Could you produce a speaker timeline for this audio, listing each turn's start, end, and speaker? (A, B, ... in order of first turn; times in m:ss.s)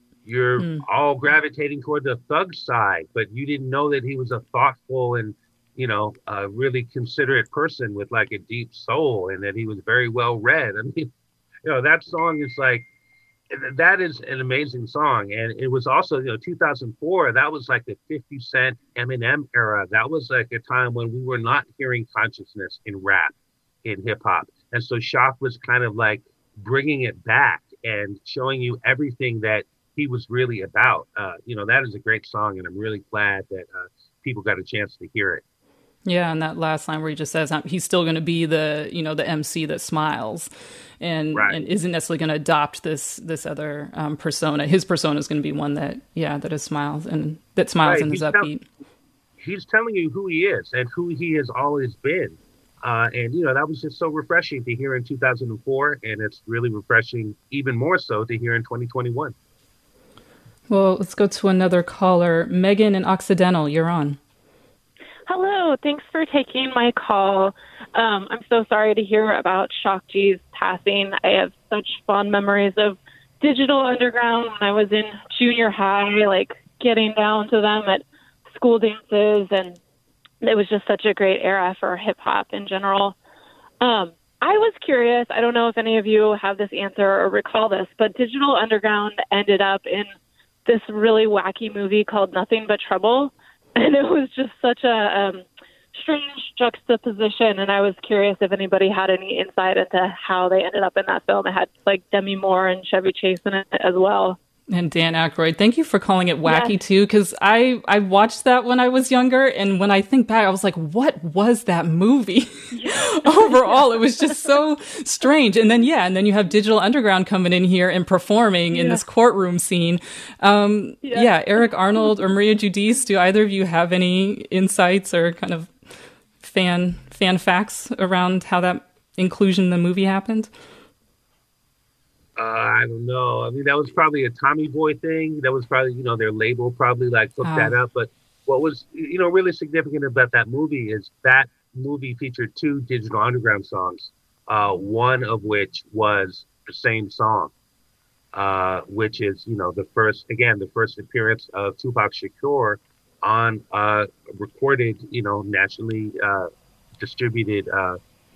0:00.2-0:11.1 A
0:00.6-0:00.9 B
0:11.6-0:12.9 A
0:13.5-0:23.3 A
0:23.8-0:35.4 A
0:36.1-0:40.5 B
0:41.0-0:48.6 B
0:47.8-0:48.5 A
0:49.4-0:59.3 A
1:00.7-1:04.2 B
1:05.3-1:19.8 C
1:20.4-1:23.2 C
1:23.8-1:30.1 C
1:30.7-1:44.4 C
1:44.7-2:05.7 B
1:46.4-1:46.8 C
1:52.7-1:54.4 C
1:58.7-1:59.0 C
2:01.0-2:02.2 C
2:06.4-2:10.5 B
2:12.4-2:27.5 A
2:17.4-2:17.8 B
2:28.3-2:38.0 A